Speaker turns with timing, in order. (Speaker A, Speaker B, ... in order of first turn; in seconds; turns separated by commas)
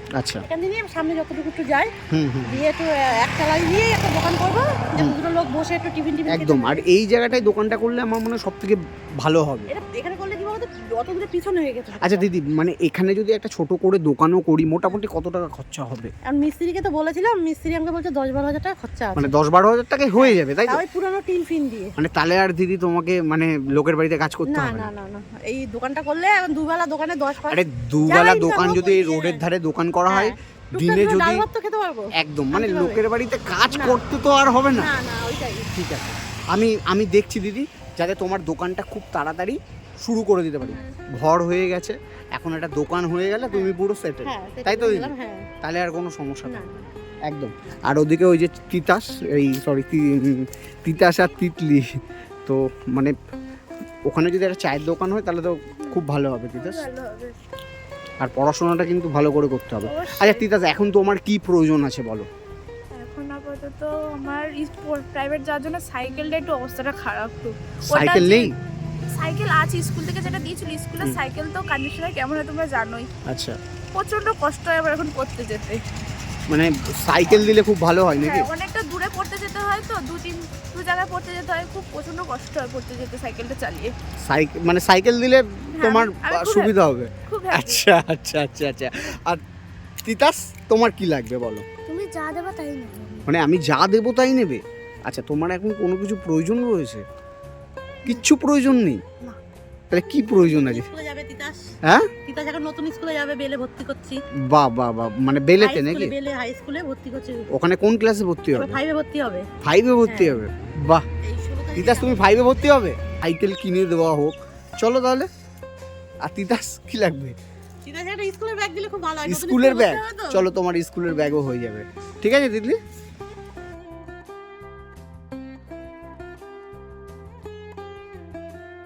Speaker A: 0.2-0.4, Speaker B: 0.4-1.9, Speaker A: 2.1-2.6, Speaker B: 2.4-6.8, Speaker A: 6.3-9.7, Speaker B: 9.7-12.3, Speaker A: 12.0-16.1, Speaker B: 16.2-19.3, Speaker A: 19.1-20.8, Speaker B: 20.1-21.9, Speaker A: 22.0-24.9, Speaker B: 24.5-29.4, Speaker A: 27.5-31.4, Speaker B: 30.1-33.0, Speaker A: 32.2-34.9, Speaker B: 33.7-34.0, Speaker B: 34.7-35.7, Speaker A: 35.7-46.6, Speaker B: 44.2-45.4, Speaker B: 46.5-46.8, Speaker A: 47.3-51.9, Speaker A: 52.5-53.1, Speaker A: 54.1-56.8, Speaker C: 56.5-57.3, Speaker A: 58.2-62.3, Speaker C: 59.8-60.5, Speaker C: 62.9-68.5, Speaker A: 67.9-68.5, Speaker C: 69.1-73.1, Speaker A: 73.3-73.6, Speaker C: 73.9-75.8, Speaker A: 76.5-78.5, Speaker C: 78.2-83.9, Speaker A: 84.2-89.4, Speaker C: 85.8-86.7, Speaker C: 87.3-87.8, Speaker A: 90.0-91.6, Speaker C: 91.9-93.3, Speaker A: 93.3-97.0, Speaker A: 98.0-99.0, Speaker A: 99.9-100.9, Speaker B: 100.3-101.6, Speaker B: 102.2-104.2, Speaker A: 104.4-106.1, Speaker B: 105.6-107.4, Speaker A: 107.5-108.8, Speaker B: 108.5-109.5, Speaker A: 109.6-111.0, Speaker B: 110.1-110.4, Speaker B: 111.2-112.3, Speaker A: 111.8-115.3, Speaker A: 116.2-117.3, Speaker B: 117.8-120.4, Speaker A: 119.2-122.8